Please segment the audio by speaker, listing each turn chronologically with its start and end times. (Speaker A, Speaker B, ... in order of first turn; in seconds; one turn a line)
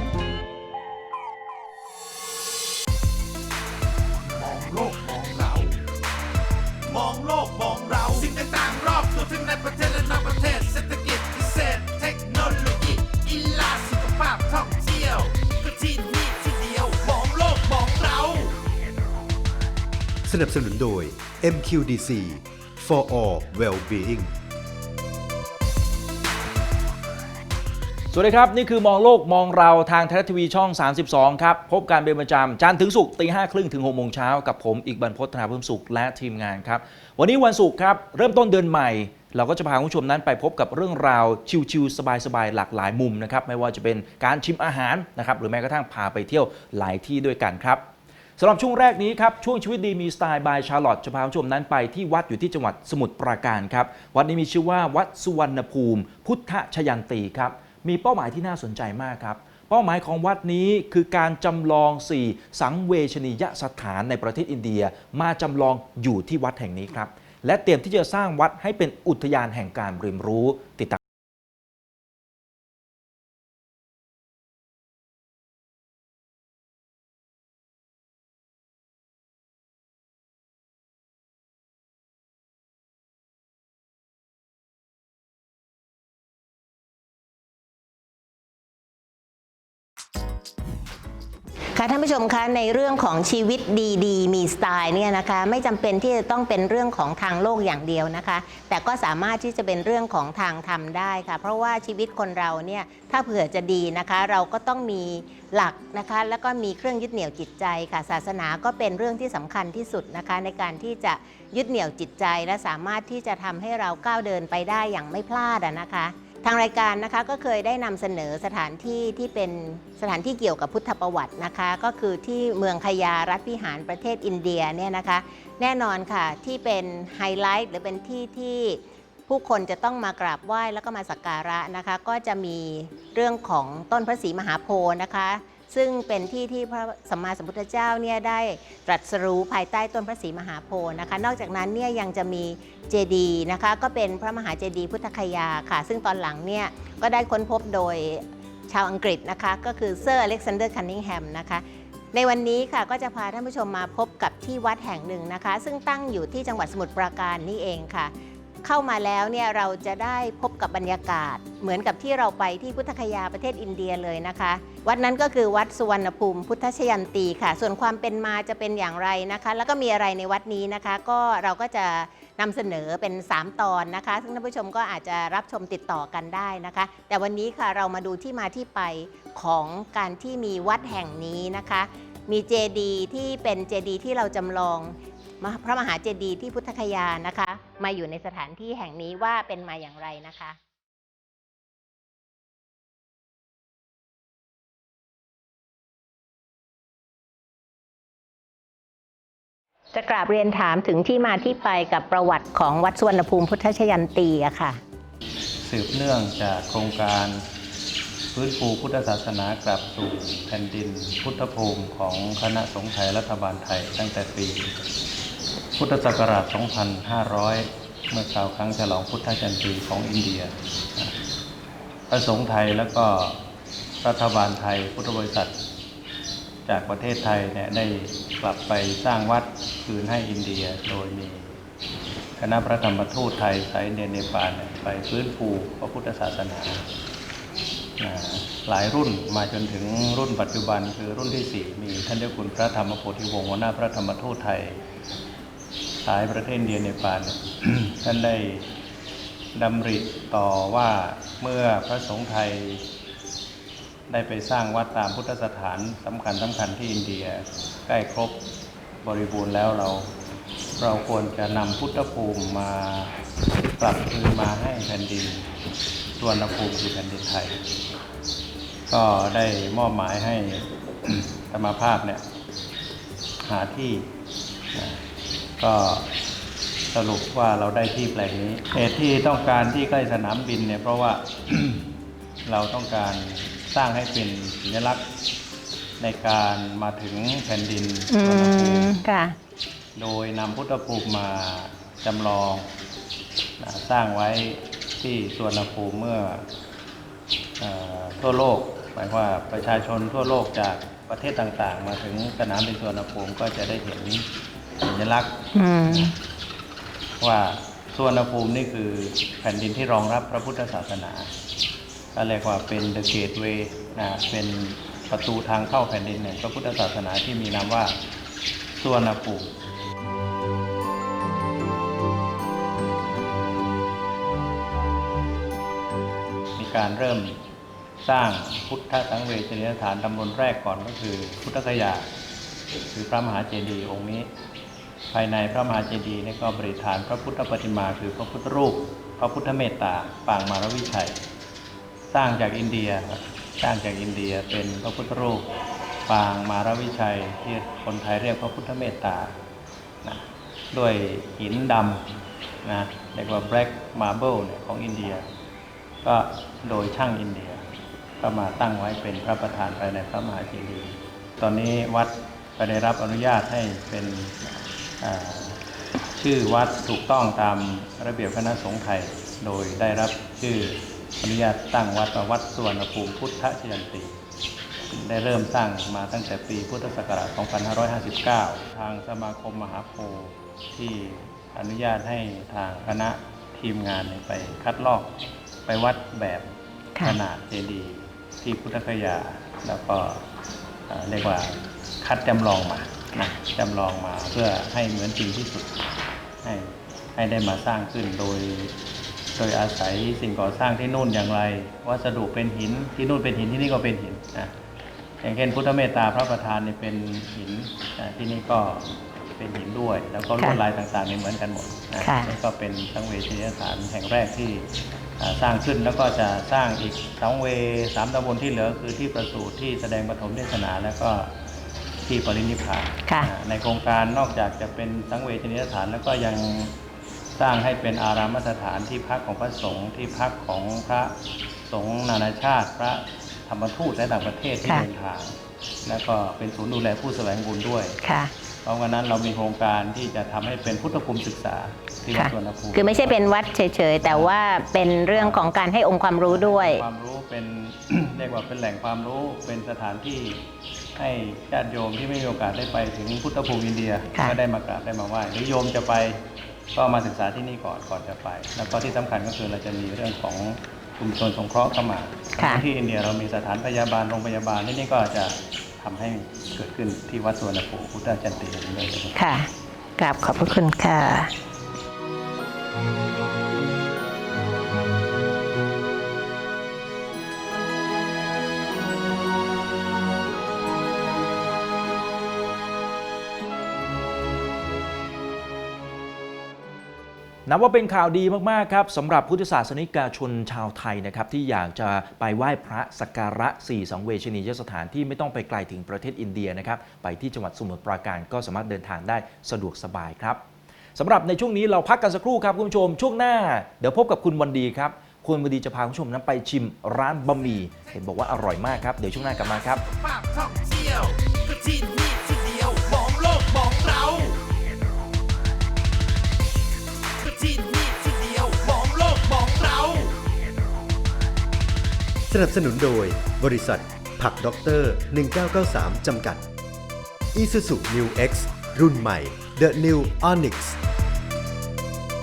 Speaker A: 4.3-5.8
Speaker A: 6.9-18.5
Speaker B: 20.2-24.3
Speaker C: 28.1-47.8
Speaker C: 48.4-71.0
Speaker D: 91.8-190.6
Speaker D: 199.9-204.8
Speaker E: 205.6-207.4
Speaker E: 208.3-214.8
Speaker E: 215.8-221.2
Speaker E: 222.1-223.4
Speaker E: 224.0-225.5
Speaker E: 226.7-231.6
Speaker E: 232.4-236.8
Speaker E: 238.0-244.8
Speaker E: 246.0-248.7
Speaker E: 249.5-252.8
Speaker E: 254.1-258.4
Speaker E: 259.0-260.1
Speaker E: 260.8-263.2
Speaker E: 263.8-265.5
Speaker E: 266.2-267.6
Speaker E: 268.9-272.2
Speaker E: 273.4-274.1
Speaker E: 274.7-275.0
Speaker E: 275.6-276.1
Speaker E: 276.9-281.8
Speaker E: 282.4-285.1
Speaker E: 286.0-288.9
Speaker D: 288.1-289.4
Speaker E: 289.9-292.7
Speaker E: 293.6-296.4
Speaker E: 297.6-304.2
Speaker E: 304.8-306.1
Speaker D: 305.5-306.1
Speaker E: 307.2-311.3
Speaker E: 312.1-317.9
Speaker E: 318.8-319.5
Speaker E: 326.6-327.4
Speaker E: 328.0-332.1
Speaker E: 332.9-334.3
Speaker E: 335.1-341.2
Speaker E: 342.1-345.5
Speaker E: 346.1-349.4
Speaker E: 350.0-352.1
Speaker E: 352.6-355.2
Speaker E: 356.0-357.6
Speaker E: 358.2-364.4
Speaker E: 365.0-365.6
Speaker E: 366.1-374.1
Speaker E: 374.9-386.5
Speaker E: 387.0-390.2
Speaker E: 390.9-395.8
Speaker E: 396.4-398.7
Speaker E: 399.3-404.5
Speaker E: 405.2-421.3
Speaker D: 412.0-412.3
Speaker E: 422.0-426.7
Speaker D: 423.1-423.3
Speaker E: 427.4-431.1
Speaker E: 431.7-438.0
Speaker D: 438.0-438.3
Speaker E: 438.6-443.3
Speaker D: 442.1-446.8
Speaker E: 444.0-444.3
Speaker E: 445.1-445.5
Speaker E: 446.2-450.4
Speaker E: 450.9-469.2
Speaker D: 462.4-462.6
Speaker D: 469.1-471.3
Speaker C: 487.5-500.4
Speaker C: 500.9-509.8
Speaker A: 509.4-514.4
Speaker A: 517.2-520.1
Speaker B: 522.3-526.5
Speaker B: 527.3-530.8